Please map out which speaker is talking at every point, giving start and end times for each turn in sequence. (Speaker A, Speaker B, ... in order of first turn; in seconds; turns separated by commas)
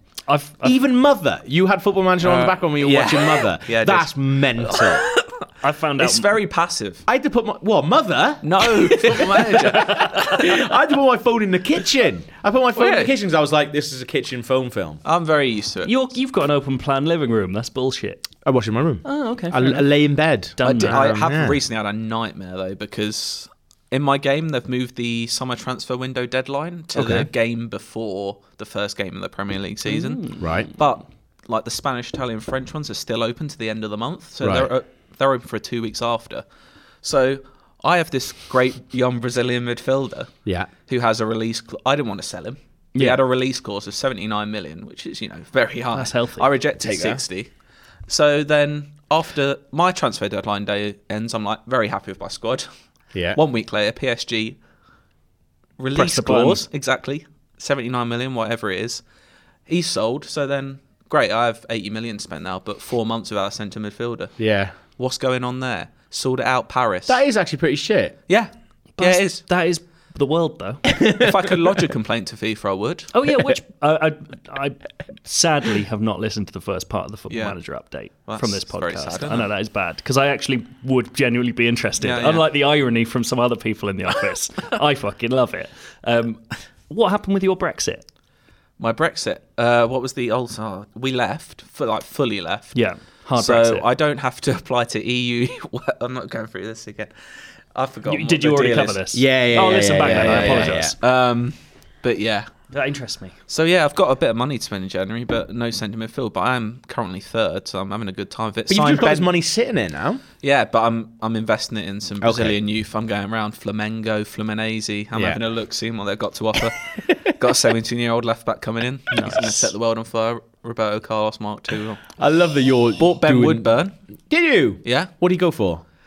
Speaker A: 0.3-0.8, Speaker B: 0.6-5.1, Speaker C: 2.2-5.5, Speaker A: 5.6-6.3, Speaker C: 6.0-7.0, Speaker B: 7.1-15.0, Speaker C: 8.4-10.6, Speaker C: 12.8-13.1, Speaker C: 15.0-15.9, Speaker A: 15.8-18.2, Speaker B: 18.4-21.6, Speaker A: 19.0-19.9, Speaker A: 20.6-21.0, Speaker C: 20.6-36.5, Speaker B: 26.9-27.3, Speaker A: 29.9-30.4, Speaker B: 30.4-30.7, Speaker B: 34.4-34.7, Speaker C: 37.0-40.4, Speaker B: 40.5-40.7, Speaker C: 40.9-47.5, Speaker A: 46.0-46.5, Speaker B: 46.8-47.2, Speaker C: 48.1-52.7, Speaker B: 53.1-53.4, Speaker C: 53.3-54.6, Speaker C: 55.8-59.0, Speaker A: 56.0-56.6, Speaker C: 59.7-64.3, Speaker B: 64.4-64.8, Speaker C: 65.0-67.2, Speaker B: 67.1-68.2, Speaker C: 68.3-69.4, Speaker A: 69.0-70.8, Speaker B: 70.9-71.5, Speaker C: 71.1-73.1, Speaker A: 73.1-88.0, Speaker C: 77.3-77.6, Speaker C: 78.3-79.5, Speaker C: 82.0-82.5, Speaker C: 88.8-92.8, Speaker A: 92.7-93.9, Speaker C: 93.4-97.1, Speaker C: 97.7-99.1, Speaker A: 98.1-101.0, Speaker B: 99.1-101.0, Speaker C: 99.9-102.5, Speaker A: 102.7-103.4, Speaker C: 103.5-109.3, Speaker B: 108.7-110.2, Speaker C: 110.4-122.0, Speaker B: 112.2-112.6, Speaker B: 115.1-115.4, Speaker A: 119.1-119.7, Speaker B: 122.2-123.7, Speaker C: 123.0-124.0, Speaker B: 124.3-125.8, Speaker C: 124.8-125.1